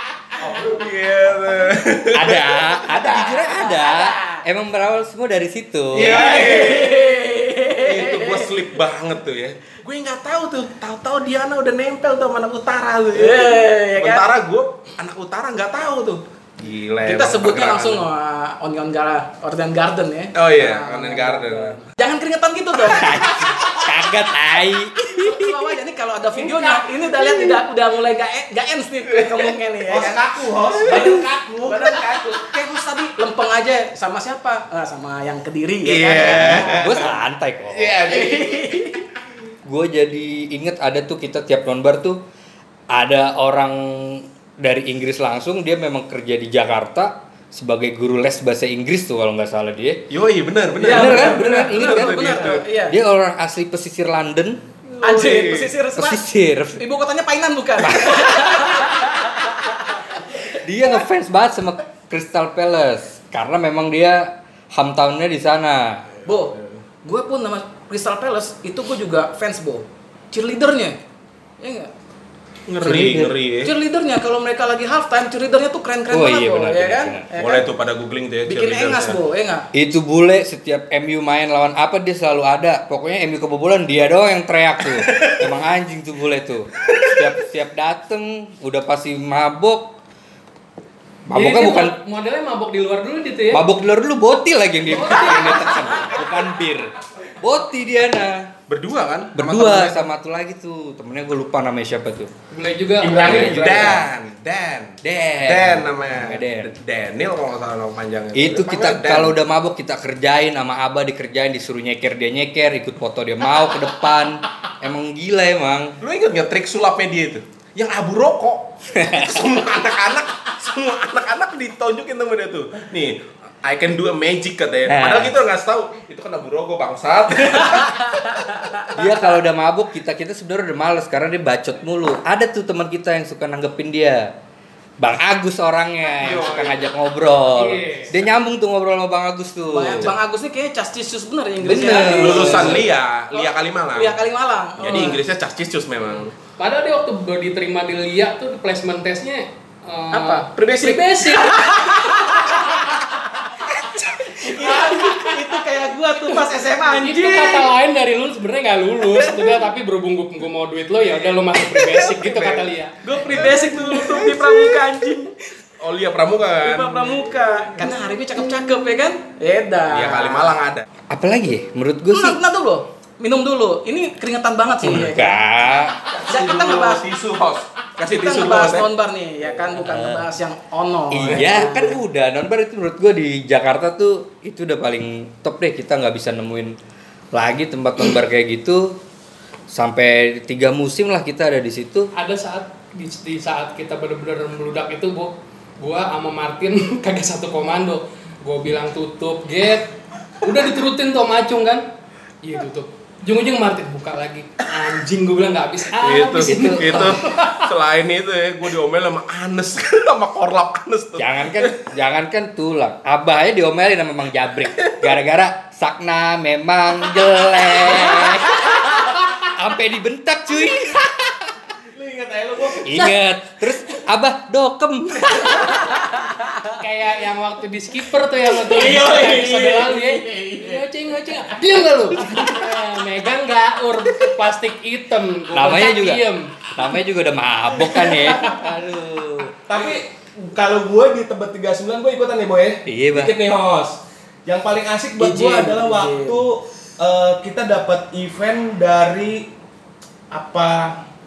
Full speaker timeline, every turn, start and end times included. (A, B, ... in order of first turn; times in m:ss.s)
0:00.4-0:00.7 A
0:00.4-0:02.7 B
0:02.1-0:06.4 C
0:03.4-0:04.4 D
0:05.9-0:07.1 B
0:06.0-0:08.5 D
0:06.4-0:06.7 A
0:07.8-0:18.1 B
0:13.2-0:14.3 D
0:17.0-0:23.9 D
0:20.4-0:21.8 B
0:22.8-0:25.7 C
0:25.1-0:30.3 D
0:26.4-0:26.7 A
0:29.9-0:32.0 A
0:30.7-0:31.1 B
0:30.8-0:37.0 D
0:35.9-0:36.9 B
0:35.9-0:37.0 A
0:36.5-0:38.0 C
0:37.8-0:38.5 B
0:38.0-0:39.0 D
0:39.6-0:42.2 C
0:42.9-0:50.0 C
0:50.1-0:52.6 B
0:50.8-0:53.0 D
0:50.8-0:54.6 C
0:54.9-0:55.7 B
0:55.0-0:56.2 D
0:56.0-0:56.8 C
0:56.8-1:00.2 D
0:57.8-0:58.8 C
1:00.5-1:06.0 C
1:06.3-1:06.5 D
1:07.0-1:11.0 D
1:11.6-1:11.9 D
1:12.7-1:13.7 B
1:12.8-1:13.3 C
1:13.6-1:17.7 D
1:16.1-1:17.3 C
1:17.4-1:19.2 B
1:18.5-1:19.7 D
1:19.7-1:29.9 C
1:31.3-1:31.9 C
1:31.4-1:33.6 E
1:33.5-1:38.5 C
1:34.9-1:36.1 E
1:38.7-1:40.1 B
1:39.4-1:42.3 C
1:42.5-1:43.8 E
1:43.0-1:44.0 A
1:43.2-1:49.4 B
1:43.2-1:44.0 C
1:45.0-1:46.7 C
1:48.4-1:56.0 C
1:56.0-2:08.8 B
1:58.9-1:59.4 C
2:04.9-2:05.3 C
2:08.9-2:14.3 C
2:15.0-2:20.2 C
2:16.2-2:16.8 B
2:17.5-2:18.2 E
2:19.7-2:25.2 D
2:21.6-2:22.8 C
2:21.9-2:24.2 B
2:24.8-2:26.3 B
2:26.6-2:32.1 E
2:30.1-2:33.5 D
2:34.3-2:37.7 D
2:34.8-2:35.2 E
2:36.9-2:43.0 E
2:39.1-2:39.5 D
2:42.2-2:44.8 B
2:43.1-2:45.3 D
2:45.8-2:47.2 B
2:46.6-2:50.6 D
2:49.9-2:50.9 B
2:51.1-2:52.4 C
2:52.1-2:55.4 D
2:54.8-2:56.0 C
2:56.1-2:58.9 B
2:56.2-2:57.0 D
2:58.0-3:02.0 D
2:59.9-3:00.2 C
3:01.1-3:06.8 C
3:07.3-3:09.0 C
3:09.7-3:12.1 C
3:12.1-3:21.8 E
3:22.4-3:27.7 E
3:26.0-3:31.8 B
3:31.2-3:41.3 C
3:41.9-3:43.2 A
3:42.8-3:46.0 C
3:46.7-3:56.8 E
3:48.6-3:50.8 A
3:55.5-3:56.2 C
3:56.8-3:59.5 C
3:57.9-3:58.5 E
3:59.7-4:09.5 A
4:02.9-4:03.4 C
4:05.2-4:06.4 D
4:10.3-4:11.0 A